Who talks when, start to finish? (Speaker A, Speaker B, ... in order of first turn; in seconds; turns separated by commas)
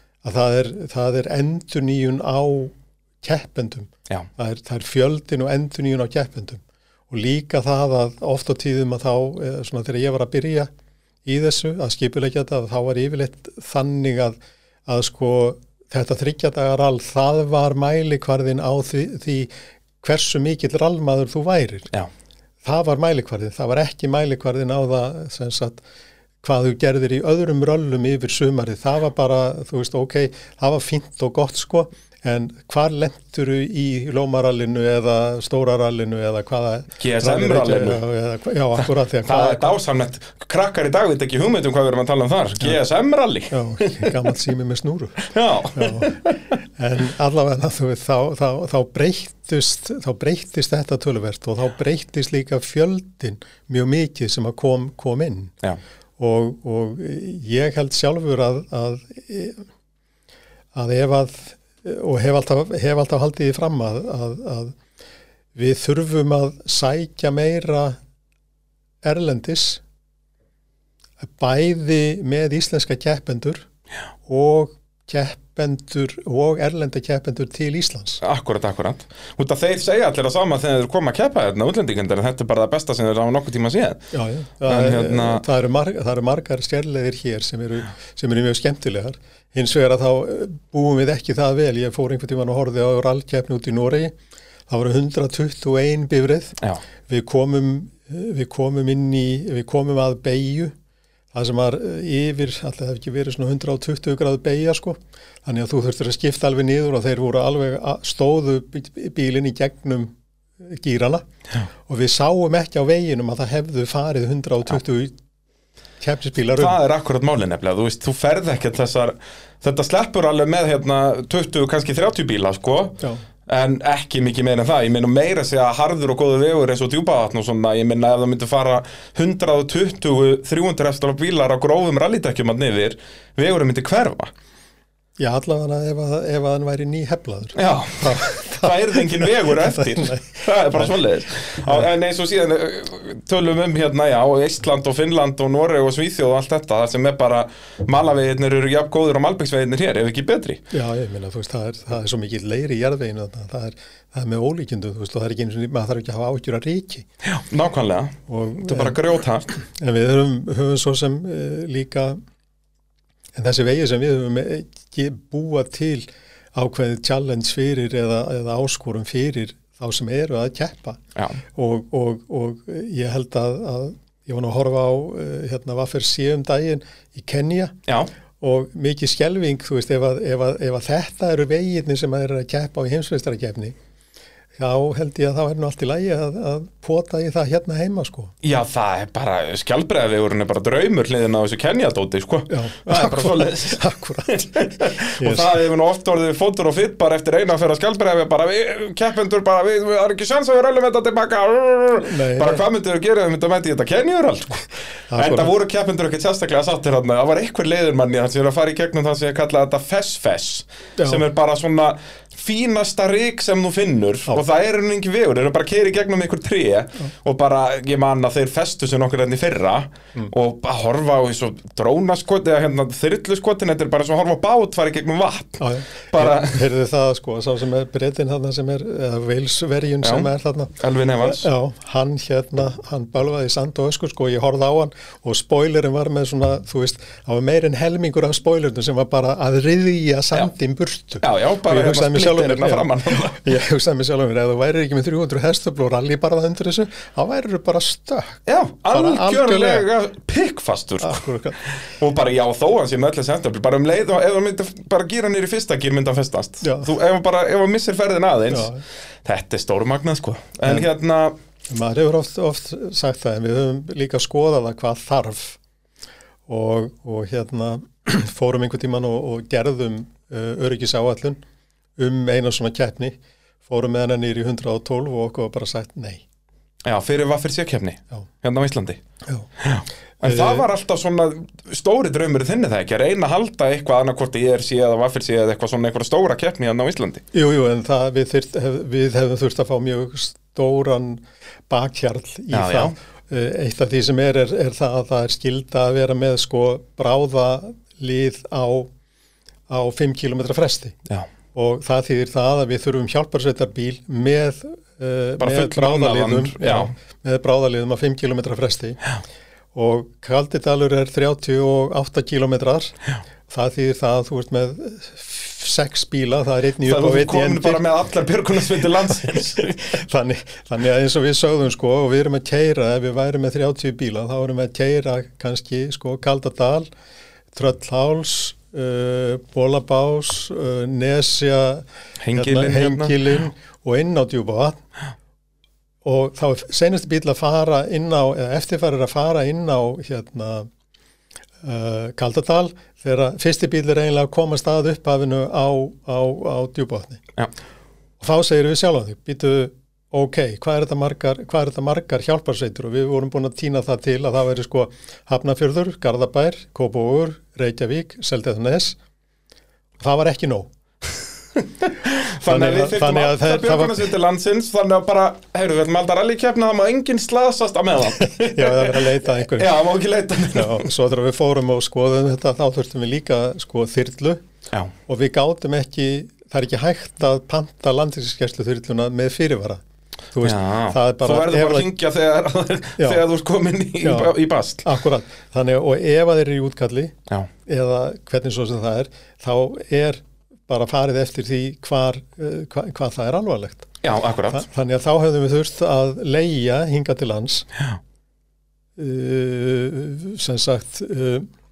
Speaker A: 0.2-10.7, Speaker A: 11.2-21.9, Speaker A: 22.6-25.8, Speaker A: 26.4-39.8, Speaker B: 37.0-38.0, Speaker B: 39.2-44.1, Speaker A: 43.5-46.1, Speaker B: 45.2-46.6, Speaker A: 46.8-55.5, Speaker A: 56.2-59.6, Speaker A: 60.7-64.8, Speaker A: 65.5-68.0, Speaker A: 69.0-69.8, Speaker A: 71.2-73.6, Speaker A: 74.2-78.2, Speaker B: 78.2-84.0, Speaker A: 84.1-94.1, Speaker B: 84.7-85.4, Speaker A: 94.7-96.5, Speaker A: 97.1-100.7, Speaker A: 101.3-111.2, Speaker A: 111.8-115.1, Speaker A: 116.0-116.8, Speaker B: 116.5-134.3, Speaker A: 135.2-140.9, Speaker B: 137.5-150.6, Speaker A: 150.7-157.1, Speaker B: 157.2-159.5, Speaker A: 158.3-162.2, Speaker A: 163.3-171.0, Speaker B: 171.2-171.4, Speaker A: 171.5-177.8, Speaker A: 178.4-183.7, Speaker A: 184.6-188.3, Speaker B: 188.4-226.6, Speaker A: 192.5-195.6, Speaker A: 202.0-202.6, Speaker A: 205.1-205.5, Speaker A: 225.6-230.7, Speaker B: 230.0-230.3, Speaker B: 230.8-231.4, Speaker A: 231.2-248.4, Speaker B: 241.2-243.4, Speaker B: 248.4-258.7, Speaker A: 248.9-249.8, Speaker A: 251.0-251.6, Speaker A: 256.6-256.9, Speaker A: 258.5-258.8, Speaker B: 259.2-261.3, Speaker A: 261.7-265.6, Speaker A: 266.5-271.4, Speaker A: 272.0-276.2, Speaker B: 276.8-279.0, Speaker B: 279.6-287.2, Speaker A: 280.2-280.7, Speaker A: 287.3-298.9, Speaker B: 292.5-292.9, Speaker A: 299.7-300.9, Speaker A: 301.5-309.0, Speaker B: 305.4-306.9, Speaker A: 309.7-312.9, Speaker A: 313.5-317.8, Speaker B: 316.8-319.9, Speaker A: 319.3-326.9, Speaker A: 327.5-334.8, Speaker B: 332.2-333.1, Speaker A: 336.0-340.7, Speaker A: 341.6-347.2, Speaker A: 348.2-359.0, Speaker A: 360.0-360.7, Speaker B: 361.6-370.8, Speaker A: 362.5-364.1, Speaker A: 368.2-369.8, Speaker A: 370.5-374.4, Speaker A: 375.1-379.8, Speaker A: 380.3-381.9, Speaker B: 380.4-384.8, Speaker A: 384.0-387.1, Speaker A: 387.6-393.9, Speaker B: 394.0-394.6, Speaker A: 394.5-397.6, Speaker A: 399.0-401.4